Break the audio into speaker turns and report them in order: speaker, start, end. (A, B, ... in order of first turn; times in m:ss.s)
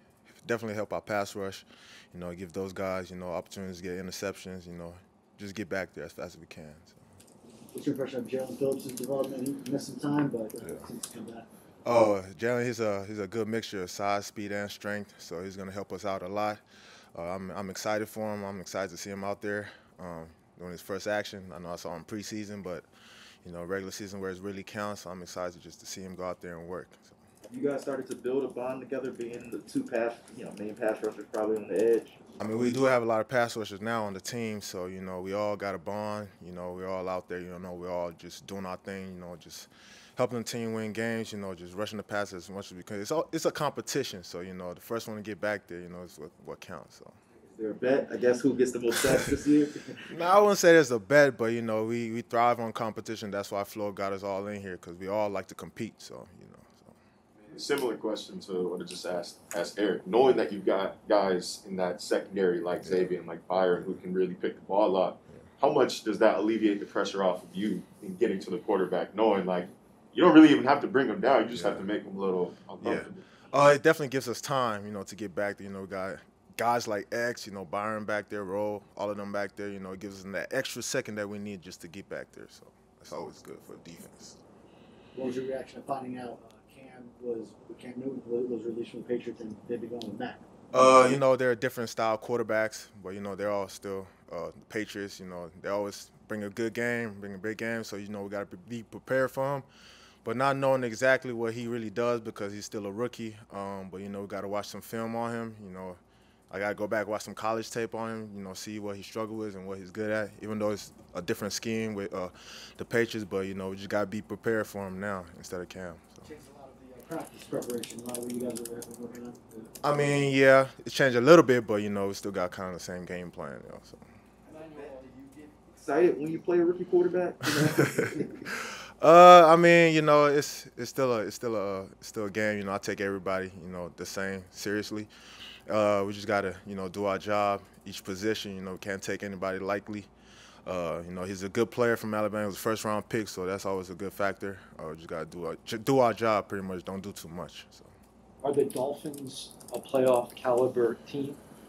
0:00.3-0:07.0 A
0:07.7-0:11.5 B
0:11.8-0:16.6 A
0:17.1-0:22.9 A
0:23.4-0:27.2 A
0:27.5-0:32.2 C
0:32.4-0:47.2 A
0:47.6-0:50.1 C
0:50.1-0:57.0 A
0:57.5-1:13.2 D
1:02.8-1:03.2 A
1:11.5-1:11.9 A
1:12.8-1:24.4 A
1:25.2-1:30.4 B
1:30.7-1:39.7 A
1:40.2-1:56.3 A
1:56.2-1:59.7 B
1:59.8-2:04.0 A
2:04.5-2:05.3 B
2:05.7-2:08.4 C
2:07.6-2:15.1 A
2:15.7-2:20.1 A
2:20.6-2:27.9 A
2:28.4-2:31.4 E